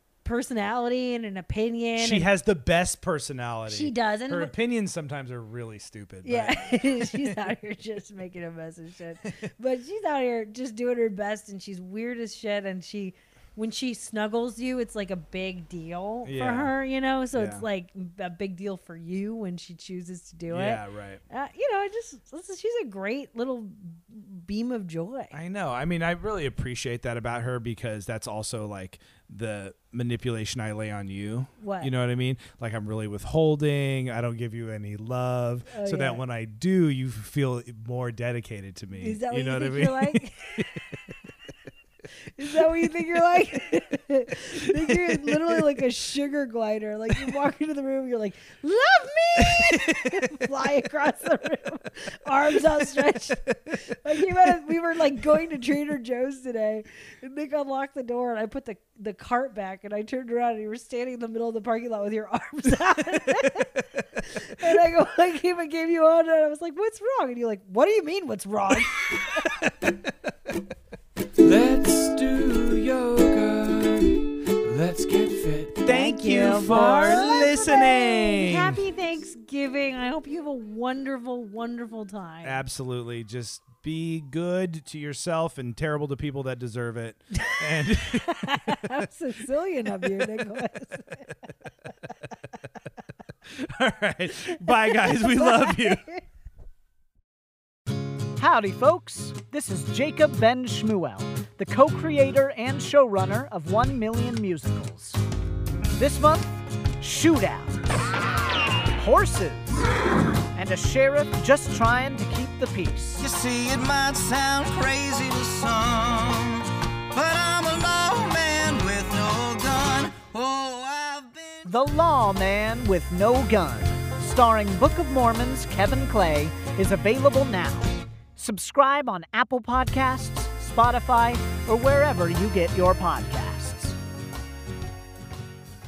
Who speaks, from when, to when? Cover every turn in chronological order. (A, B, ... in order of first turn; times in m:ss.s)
0:00.2-0:02.3 A
0:02.0-0:07.2 B
0:03.7-0:04.5 A
0:06.2-0:25.4 A
0:16.2-0:16.7 B
0:17.3-0:17.6 B
0:20.5-0:21.2 B
0:25.3-0:40.8 B
0:31.6-0:31.9 A
0:35.7-0:36.2 A
0:39.0-0:40.8 A
0:42.4-1:09.5 A
1:09.1-1:09.7 B
1:11.4-1:15.8 C
1:15.8-1:18.7 B
1:15.9-1:22.6 A
1:22.4-1:28.8 B
1:27.3-1:31.4 A
1:33.6-1:36.1 B
1:34.6-1:36.2 A
1:38.4-1:45.2 D
1:46.0-1:47.8 D
1:48.9-1:49.7 D
1:50.5-1:53.3 D
1:53.2-2:01.7 E
2:01.6-2:14.0 D